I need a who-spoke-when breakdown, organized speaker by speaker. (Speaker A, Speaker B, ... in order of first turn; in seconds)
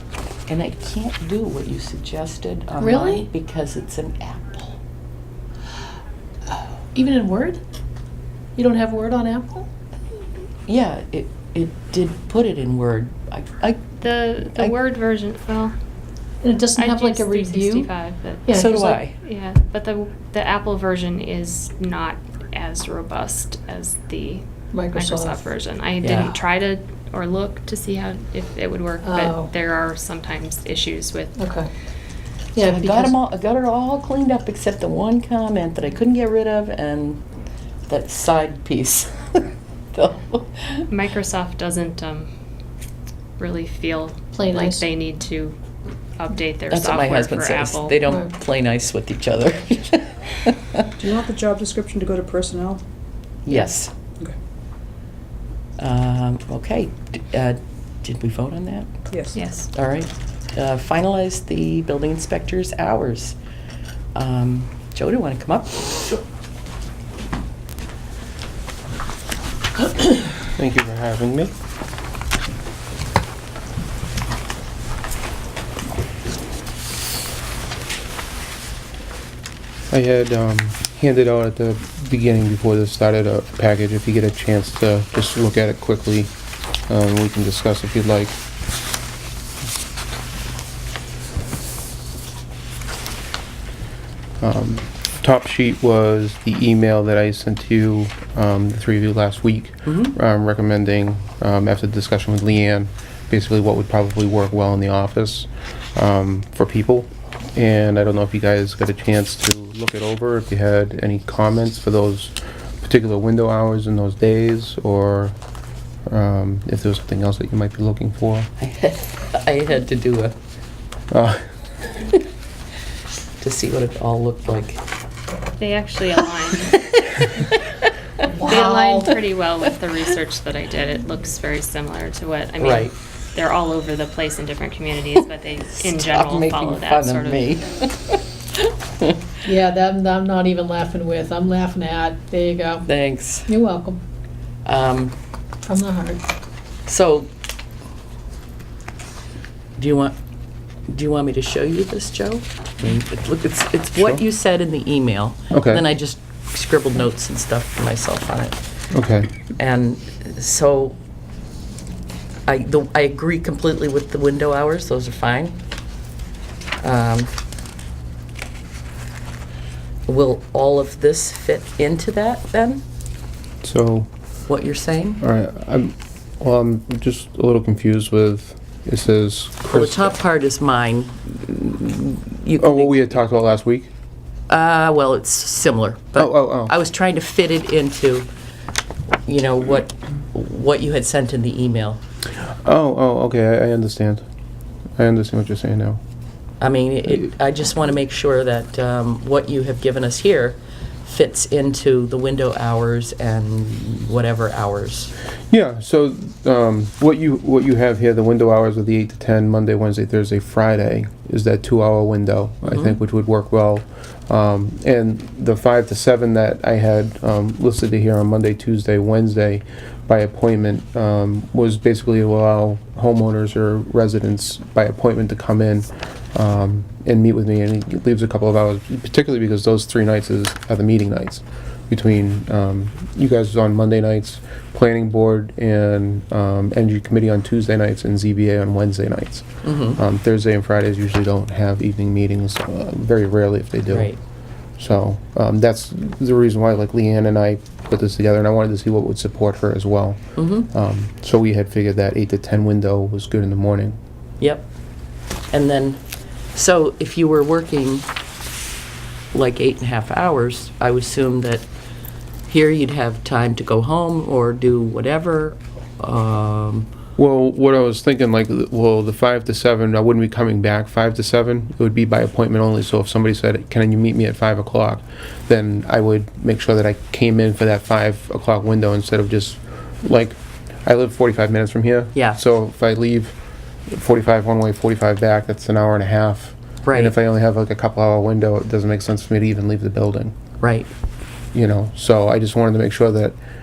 Speaker A: 0.5-4.8, 10.7-13.9, 18.5-19.2, 26.0-26.4, 32.6-37.2, 37.9-40.9, 46.7-50.9, 53.4-53.9, 55.8-58.9, 59.7-63.4, 64.2-66.2, 99.9-100.2, 118.6-120.3, 123.4-124.8, 126.7-127.9, 128.4-129.0, 132.6-132.9, 135.8-139.1, 142.8-143.5, 144.7-145.1, 146.9-147.3, 149.8-150.2, 150.9-158.6, 159.6-161.0, 162.5-165.6, 166.8-167.3, 170.1-172.8, 174.5-175.2, 179.7-183.2, 184.5-188.3, 189.3-192.0, 196.6-205.1, 239.6-240.0, 243.9-244.2, 250.4-250.7, 254.4-254.7, 255.5-256.0, 256.6-258.1, 259.3-261.7, 262.5-266.9, 282.1-282.4, 286.8-287.1, 290.6-290.9
Speaker B: 2.8-3.3, 7.0-7.6, 8.6-9.7, 16.4-17.9, 18.5-19.0, 24.7-25.4, 29.0-29.5, 31.4-31.7, 32.5-33.1, 44.4-44.9, 48.0-48.3, 128.4-129.1, 139.4-142.9, 143.5-144.0, 145.7-146.2
Speaker C: 14.0-15.8, 16.8-18.5, 19.2-31.4, 40.9-42.3, 43.4-45.6, 46.2-48.0, 59.3-59.7, 125.6-126.8, 128.4-137.6
Speaker D: 51.0-52.8, 59.1-59.4
Speaker E: 70.5-71.5, 79.9-86.3, 86.9-88.4, 94.4-115.3, 116.1-118.5, 121.1-121.4, 154.0-154.2, 155.5-155.8, 158.9-159.3, 173.6-174.1, 175.2-180.2, 182.6-183.9, 186.2-186.7, 192.6-194.2, 195.0-196.0, 205.5-244.1, 244.8-254.0, 267.2-283.4, 283.9-290.3, 291.5-293.4